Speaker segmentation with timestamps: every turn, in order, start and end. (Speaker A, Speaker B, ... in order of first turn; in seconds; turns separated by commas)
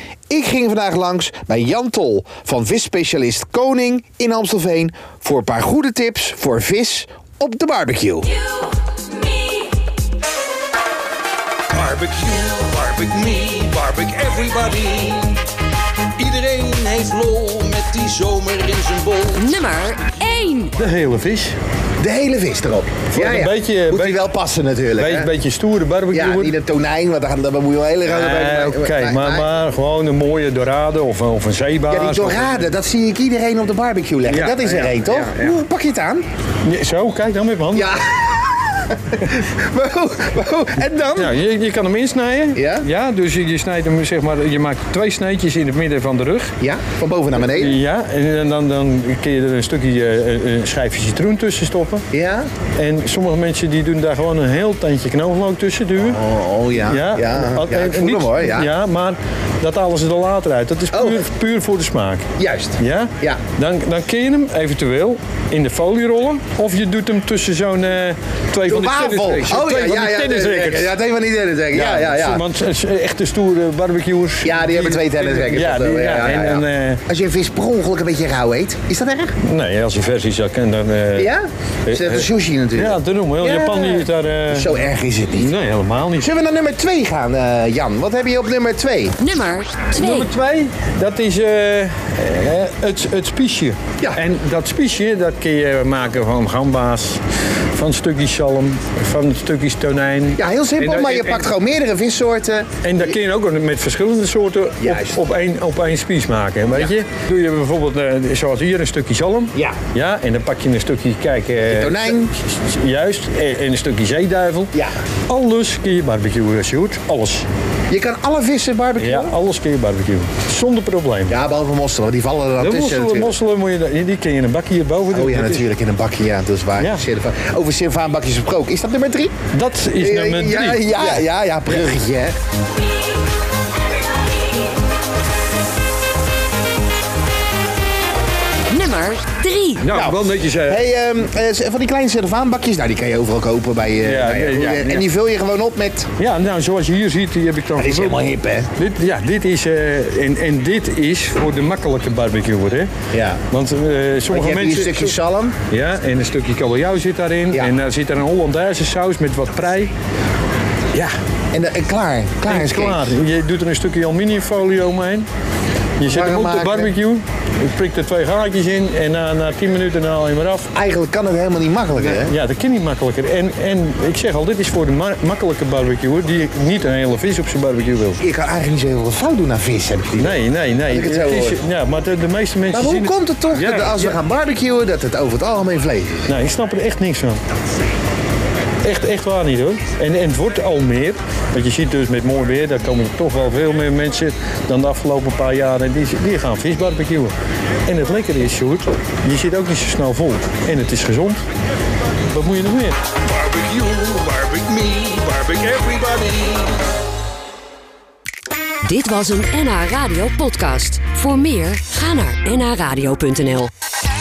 Speaker A: 0.3-8.4, Speaker B: 11.7-15.5, Speaker B: 16.2-19.6, Speaker C: 19.3-20.8, Speaker D: 20.8-21.6, Speaker A: 22.0-25.3, Speaker D: 23.1-24.2, Speaker D: 25.0-26.6, Speaker A: 26.1-29.5, Speaker D: 28.1-32.7, Speaker A: 31.9-36.2, Speaker D: 34.3-35.6, Speaker D: 36.6-37.9, Speaker A: 37.8-41.3, Speaker D: 41.2-46.5, Speaker A: 42.6-42.9, Speaker A: 46.6-47.8, Speaker D: 47.4-52.1, Speaker A: 52.1-52.5, Speaker D: 52.8-56.2, Speaker A: 56.0-58.7, Speaker D: 56.9-62.3, Speaker A: 60.9-61.2, Speaker A: 62.4-63.4, Speaker D: 62.8-70.9, Speaker A: 68.7-72.4, Speaker D: 71.7-77.0, Speaker A: 74.4-79.3, Speaker D: 79.4-81.3, Speaker A: 81.2-85.5, Speaker D: 81.9-86.3, Speaker A: 86.2-89.2, Speaker C: 89.2-90.3, Speaker D: 89.9-97.2, Speaker D: 97.7-101.5, Speaker A: 100.4-103.2, Speaker D: 102.8-114.8, Speaker A: 104.8-105.2, Speaker A: 111.6-112.3, Speaker D: 115.3-117.5, Speaker A: 117.9-119.3, Speaker D: 119.0-121.3, Speaker A: 121.3-123.3, Speaker D: 122.6-125.7, Speaker A: 125.1-129.3, Speaker D: 129.5-131.2, Speaker A: 130.0-132.3, Speaker C: 138.7-139.9, Speaker D: 139.8-140.9, Speaker A: 139.9-146.1, Speaker D: 144.0-145.1, Speaker D: 146.2-148.2, Speaker A: 147.8-148.7, Speaker D: 148.8-152.9, Speaker A: 153.1-153.4, Speaker D: 153.5-155.2, Speaker A: 154.3-155.6, Speaker D: 155.7-159.9, Speaker A: 161.5-163.1, Speaker D: 162.5-165.3, Speaker D: 166.0-170.7, Speaker A: 166.1-166.9, Speaker A: 170.7-172.3, Speaker D: 172.0-178.2, Speaker A: 178.2-181.6, Speaker D: 180.2-184.2, Speaker A: 182.7-186.3, Speaker D: 186.3-187.4, Speaker D: 188.8-197.3, Speaker D: 197.9-201.4, Speaker D: 202.3-203.0, Speaker B: 203.2-206.8, Speaker C: 208.8-213.7